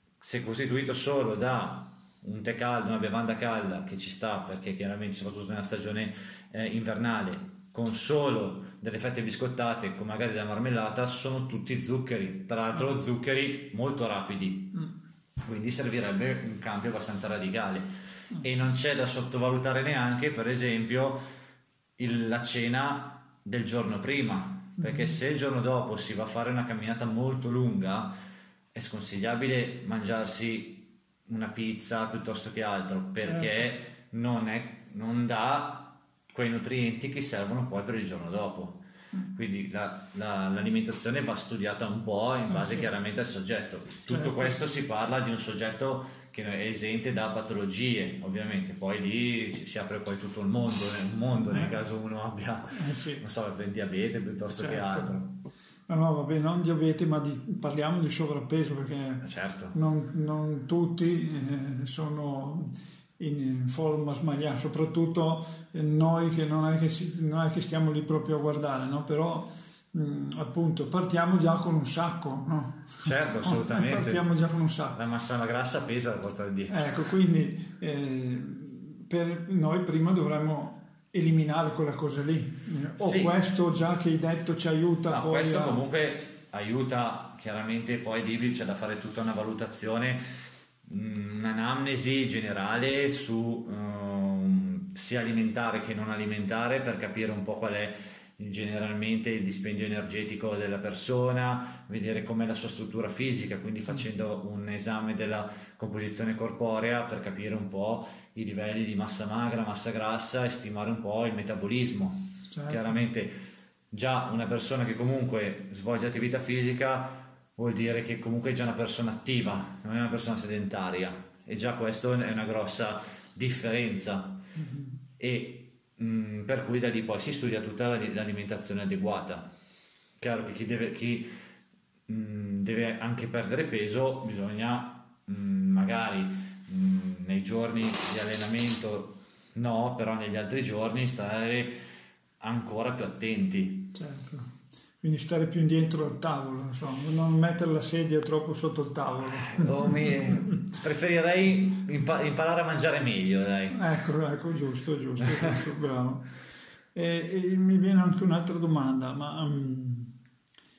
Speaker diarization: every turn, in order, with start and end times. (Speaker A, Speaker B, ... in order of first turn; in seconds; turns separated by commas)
Speaker A: 0.2-14.8, Speaker A: 15.4-17.9, Speaker A: 18.4-21.2, Speaker A: 22.0-28.1, Speaker A: 28.7-55.3, Speaker B: 42.5-42.9, Speaker B: 44.1-44.6, Speaker B: 52.7-53.2, Speaker B: 54.5-55.1, Speaker B: 55.9-75.0, Speaker A: 59.2-59.8, Speaker A: 73.0-74.2, Speaker A: 75.0-76.9, Speaker B: 76.7-85.8, Speaker A: 83.0-83.4, Speaker A: 85.1-90.2, Speaker A: 90.8-113.3, Speaker B: 112.5-113.0, Speaker A: 113.9-124.4, Speaker B: 124.6-124.9, Speaker A: 125.2-129.5, Speaker A: 130.2-131.3, Speaker A: 132.1-141.8, Speaker A: 142.4-143.9, Speaker B: 143.9-150.1, Speaker A: 149.3-153.8, Speaker B: 153.7-156.2, Speaker B: 156.9-160.1